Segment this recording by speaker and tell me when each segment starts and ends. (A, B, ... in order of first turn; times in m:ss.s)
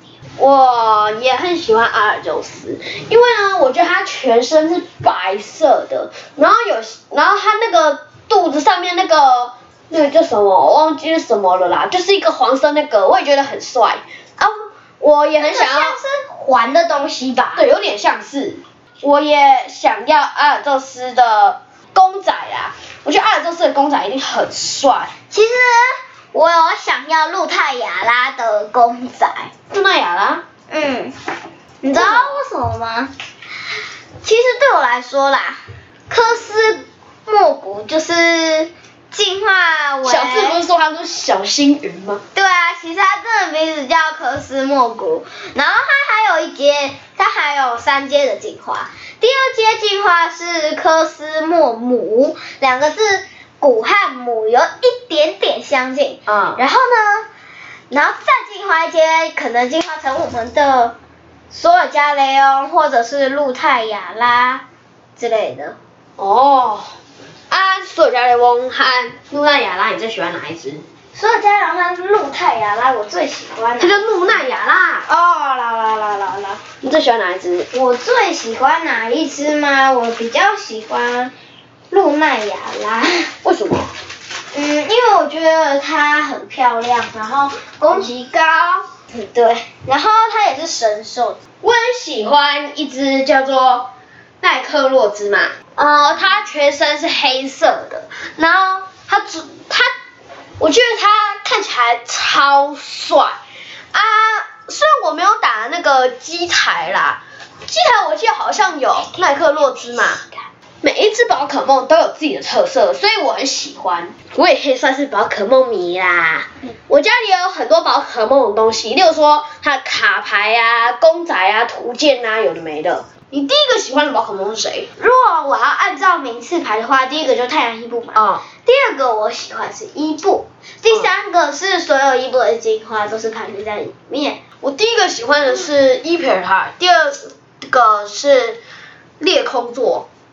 0:00.4-0:16.0 A
0:15.4-0:17.7 B
0:17.6-0:25.1 A
0:25.3-0:29.5 B
0:29.7-0:30.4 A
0:30.7-0:31.2 B
0:31.8-0:33.1 B
0:31.9-0:32.4 A
0:34.2-0:40.6 B
0:40.0-0:42.2 A
0:42.3-0:57.3 B
0:56.3-0:56.6 A
0:57.9-1:01.0 B
1:01.5-1:04.6 B
1:05.2-1:05.8 B
1:06.2-1:07.0 A
1:07.5-1:10.8 A
1:11.1-1:14.5 B
1:13.8-1:15.1 A
1:15.1-1:16.6 B
1:16.8-1:17.7 A
1:17.7-1:21.3 B
1:21.9-1:23.3 B
1:23.4-1:23.9 A
1:24.5-1:31.4 B
1:31.6-1:33.9 A
1:34.4-1:39.9 A
1:40.6-1:43.4 A
1:43.9-1:50.2 A
1:50.8-2:04.9 A
2:05.0-2:14.4 B
2:08.2-2:08.4 A
2:14.6-2:18.6 A
2:19.2-2:20.1 A